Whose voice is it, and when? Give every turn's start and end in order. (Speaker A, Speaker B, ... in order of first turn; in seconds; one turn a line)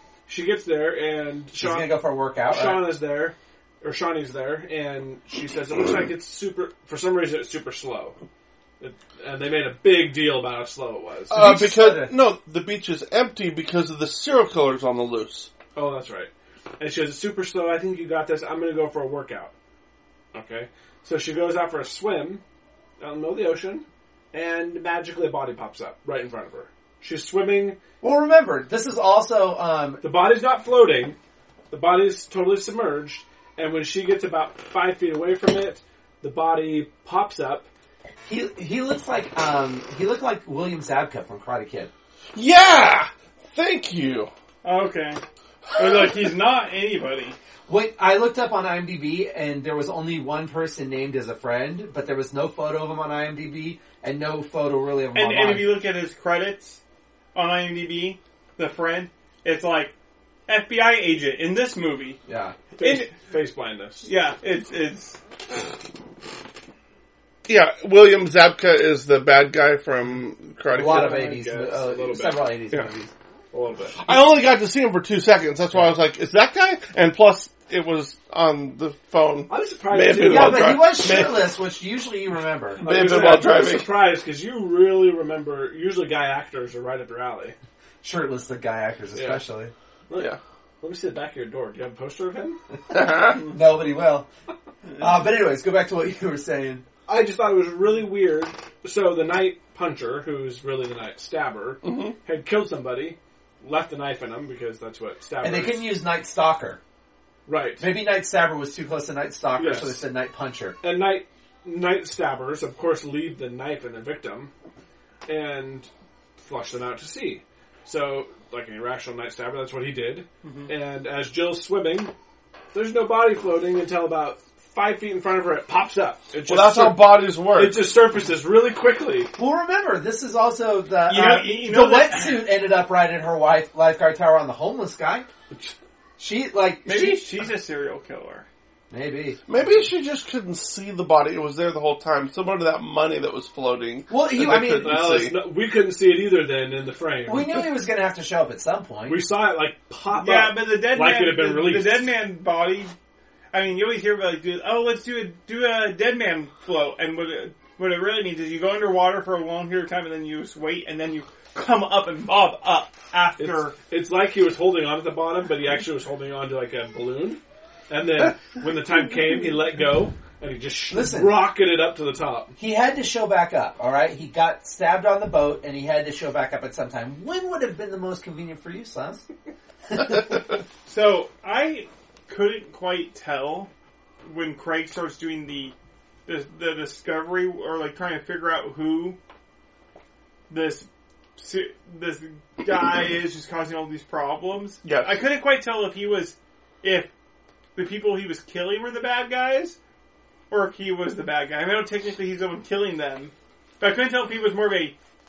Speaker A: 0.3-8.2
Speaker B: 1.6-3.0
Speaker A: 8.8-11.4
Speaker C: 11.3-15.5
Speaker B: 11.3-12.2
Speaker A: 15.8-19.5
Speaker A: 20.3-22.4
Speaker A: 23.0-27.8
Speaker B: 28.0-30.0
Speaker A: 30.0-31.2
Speaker A: 31.7-37.7
Speaker B: 38.3-41.9
Speaker C: 42.4-44.3
Speaker D: 44.6-45.2
Speaker D: 45.8-47.4
Speaker B: 47.7-55.8
Speaker D: 55.1-56.8
Speaker D: 57.3-59.9
Speaker D: 60.5-62.2
Speaker B: 62.3-62.5
Speaker A: 62.8-64.1
Speaker D: 62.8-63.1
Speaker D: 64.0-65.2
Speaker C: 67.5-71.2
Speaker A: 70.7-72.9
Speaker B: 70.7-73.1
Speaker A: 73.5-74.3
Speaker C: 74.0-81.5
Speaker A: 79.5-80.8
Speaker B: 80.2-82.8
Speaker A: 82.8-87.6
Speaker C: 82.8-83.9
Speaker B: 88.0-89.7
Speaker A: 89.2-89.4
Speaker A: 90.1-92.6
Speaker C: 90.1-90.4
Speaker C: 92.9-93.5
Speaker B: 93.3-94.3
Speaker B: 95.0-96.8
Speaker A: 97.1-105.9
Speaker C: 101.8-102.2
Speaker B: 105.4-106.8
Speaker A: 107.5-107.9
Speaker B: 107.8-110.8
Speaker A: 109.6-110.0
Speaker A: 110.8-114.5
Speaker A: 115.3-122.1
Speaker D: 120.4-120.7
Speaker A: 122.7-129.3
Speaker C: 126.5-127.8
Speaker B: 129.3-135.3
Speaker D: 131.1-132.5
Speaker B: 136.2-137.2
Speaker D: 136.9-138.5
Speaker B: 138.9-139.8
Speaker C: 139.5-145.4
Speaker B: 144.1-145.0
Speaker A: 144.8-147.7
Speaker B: 147.3-149.2
Speaker A: 149.1-152.2
Speaker D: 150.1-152.9
Speaker D: 153.5-163.8
Speaker A: 163.4-172.5
Speaker B: 170.9-171.4
Speaker B: 172.6-179.3
Speaker B: 179.9-180.4
Speaker D: 180.9-183.7
Speaker D: 184.2-185.7
Speaker D: 186.3-189.2
Speaker D: 190.5-197.1
Speaker C: 194.8-195.2
Speaker D: 197.8-199.8
Speaker D: 200.5-205.0